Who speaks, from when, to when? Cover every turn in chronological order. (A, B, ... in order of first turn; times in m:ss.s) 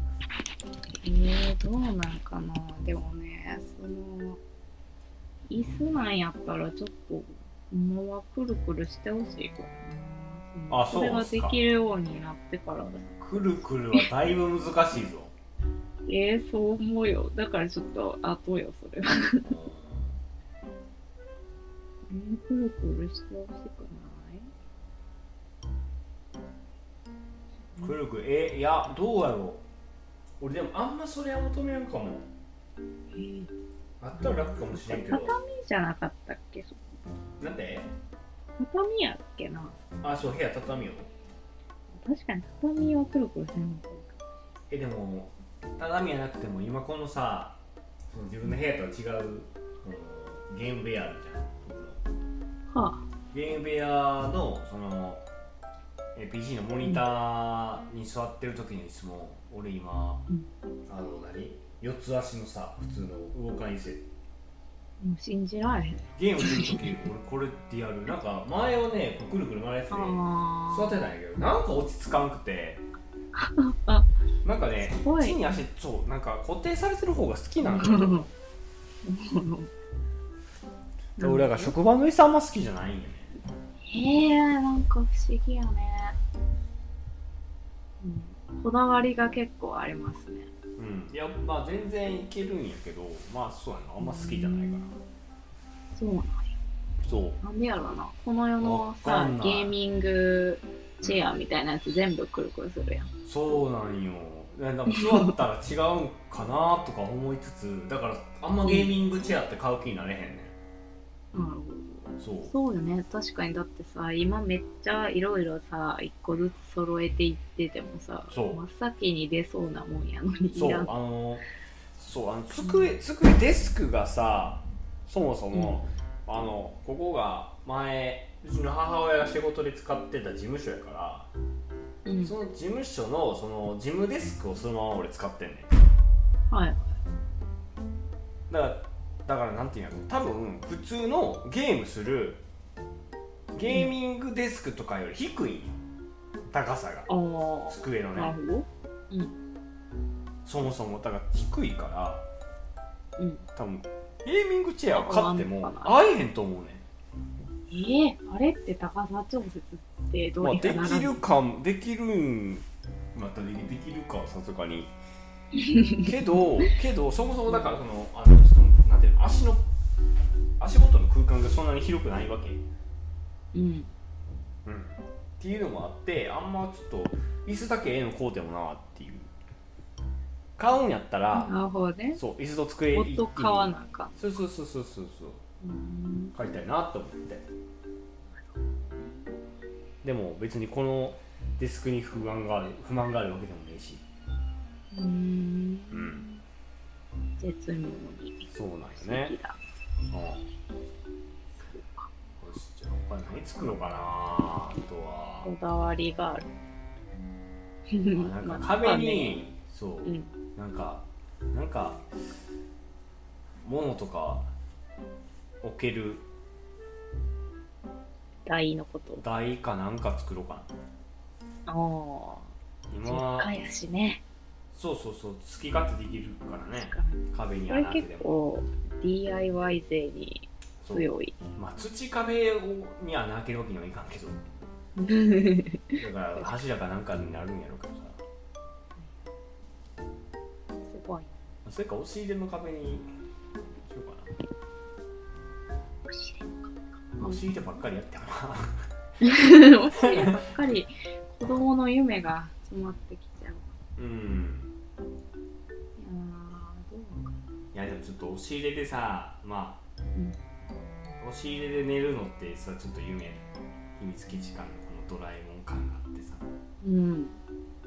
0:01.0-0:04.4 A
0:05.5-0:14.1 A
0:10.7-0:11.6 B
0:13.2-0:15.3 B
0:16.1-0:19.5 A
0:19.4-0:20.2 B
0:22.1-0:24.5 A
0:27.8-0:29.6 B
0:30.4-0:32.3 B
0:33.1-0:33.5 A
0:34.0-0:35.4 B
0:34.2-0:36.9 A
0:37.4-0:37.9 B
0:38.6-0:39.8 A
0:40.0-0:41.1 B
0:41.9-0:44.2 A
0:44.7-0:52.0 B
0:52.7-0:53.0 A
0:53.3-0:55.2 B
0:56.1-1:00.2 B
1:00.9-1:04.0 B
1:05.0-1:07.0 A
1:06.2-1:12.8 B
1:09.9-1:11.0 A
1:13.3-1:14.1 A
1:14.4-1:18.3 B
1:14.9-1:15.4 A
1:17.6-1:18.3 A
1:19.0-1:19.7 A
1:21.2-1:21.7 A
1:21.2-1:23.3 B
1:23.8-1:26.2 A
1:28.0-1:30.5 A
1:30.8-1:34.9 B
1:34.0-1:35.0 A
1:35.9-1:36.5 A
1:37.0-1:37.4 B
1:37.4-1:43.1 A
1:38.6-1:39.7 B
1:43.2-1:50.6 B
1:44.9-1:45.3 A
1:48.6-1:48.9 A
1:51.3-2:00.9 A
1:52.2-1:52.5 B
1:58.3-1:58.6 B
2:00.5-2:01.4 B
2:02.0-2:11.3 B
2:02.6-2:02.9 A
2:05.5-2:05.8 A
2:12.0-2:12.3 A
2:12.2-2:15.7 B
2:16.5-2:16.9 A
2:18.5-2:22.4 B
2:23.5-2:25.8 B
2:23.6-2:23.9 A
2:26.5-2:27.1 B
2:27.1-2:29.3 A
2:27.7-2:28.4 B
2:30.4-2:32.2 B
2:33.2-2:33.4 A
2:33.6-2:36.8 B
2:34.9-2:36.0 A
2:37.7-2:41.2 A
2:40.4-2:44.9 B
2:45.5-2:46.1 A
2:46.0-2:49.6 B
2:50.6-2:52.6 B
2:53.5-2:53.9 A
2:54.6-2:59.3 B
3:00.6-3:01.5 B
3:01.3-3:02.2 A
3:02.1-3:05.4 B
3:02.9-3:04.2 A
3:05.6-3:06.3 A
3:06.3-3:07.4 B
3:08.5-3:09.3 A
3:10.0-3:14.0 B
3:14.9-3:16.4 A
3:15.9-3:16.2 B
3:17.4-3:19.6 A
3:18.5-3:19.3 B
3:20.1-3:20.4 B
3:21.6-3:22.1 A
3:22.4-3:25.5 B
3:25.4-3:26.5 A
3:27.9-3:29.4 A
3:28.1-3:32.1 B
3:30.0-3:30.3 A
3:33.6-3:34.5 B
3:35.6-3:36.2 B
3:38.4-3:39.2 A
3:39.2-3:40.7 B
3:41.7-3:42.5 A
3:42.9-3:43.5 B
3:43.0-3:44.2 A
3:44.7-3:48.3 B
3:46.7-3:51.4 A
3:50.8-3:54.4 B
3:55.0-3:56.6 A
3:55.9-3:58.2 B
4:00.8-4:01.3 A
4:01.6-4:03.1 B
4:03.8-4:04.3 B
4:06.1-4:07.5 A
4:07.2-4:08.8 B
4:09.2-4:13.7 A
4:10.0-4:10.5 B
4:14.0-4:14.7 B
4:16.0-4:17.4 A
4:17.7-4:19.8 B
4:21.2-4:26.5 B
4:26.8-4:27.4 A